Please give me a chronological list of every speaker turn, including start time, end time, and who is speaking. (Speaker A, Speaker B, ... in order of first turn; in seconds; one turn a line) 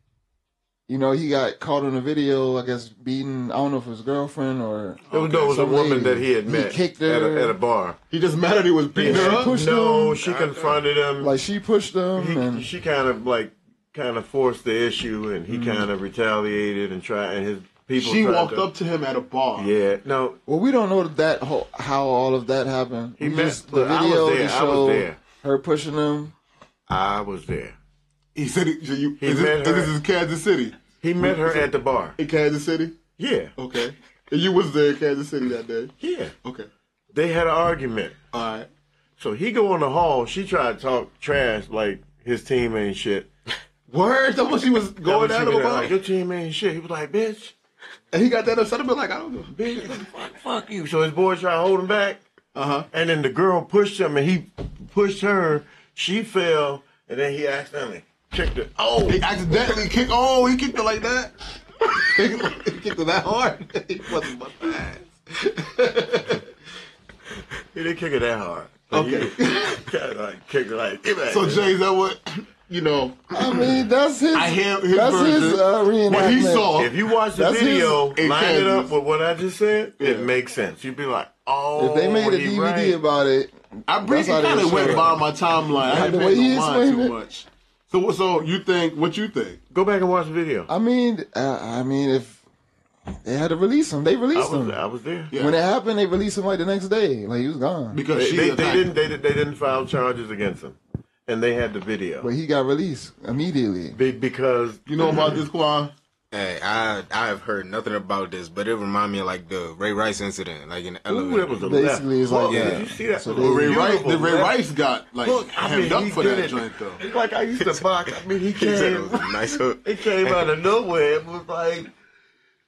Speaker A: 0.9-7.6
Speaker B: 5.1-5.6
Speaker C: 5.1-8.0
Speaker B: 8.1-9.5
Speaker C: 8.9-11.3
Speaker A: 9.0-10.2
Speaker A: 11.2-12.7
Speaker C: 12.2-18.7
Speaker A: 15.5-15.8
Speaker B: 18.0-19.7
Speaker C: 19.6-20.4
Speaker A: 20.5-26.3
Speaker C: 23.2-25.2
Speaker C: 26.9-27.8
Speaker B: 28.4-31.7
Speaker C: 29.2-30.0
Speaker C: 31.0-32.2
Speaker B: 32.2-33.0
Speaker C: 33.2-33.5
Speaker B: 33.6-36.7
Speaker C: 36.0-36.3
Speaker C: 37.1-38.2
Speaker B: 38.3-38.7
Speaker C: 39.2-43.3
Speaker B: 43.9-45.9
Speaker C: 45.0-47.5
Speaker B: 48.1-50.0
Speaker C: 49.5-52.2
Speaker B: 52.5-52.9
Speaker C: 52.9-59.9
Speaker B: 59.1-66.4
Speaker C: 67.7-71.7
Speaker B: 68.9-69.8
Speaker B: 71.1-73.8
Speaker A: 73.3-76.8
Speaker B: 74.3-77.0
Speaker C: 76.1-83.0
Speaker A: 77.3-78.0
Speaker B: 78.1-78.9
Speaker B: 80.0-80.3
Speaker A: 81.8-85.2
Speaker B: 83.9-89.6
Speaker A: 85.9-87.1
Speaker C: 89.7-90.7
Speaker A: 90.7-92.4
Speaker A: 93.2-94.8
Speaker C: 94.3-95.3
Speaker B: 95.3-95.6
Speaker A: 95.3-98.0
Speaker B: 97.9-98.9
Speaker C: 98.1-102.3
Speaker A: 102.2-104.0
Speaker C: 104.0-105.4
Speaker B: 104.9-105.9
Speaker D: 106.3-111.6
Speaker C: 111.1-114.5
Speaker A: 111.6-113.8
Speaker D: 112.5-112.8
Speaker B: 113.3-117.0
Speaker C: 115.2-121.9
Speaker D: 117.6-120.5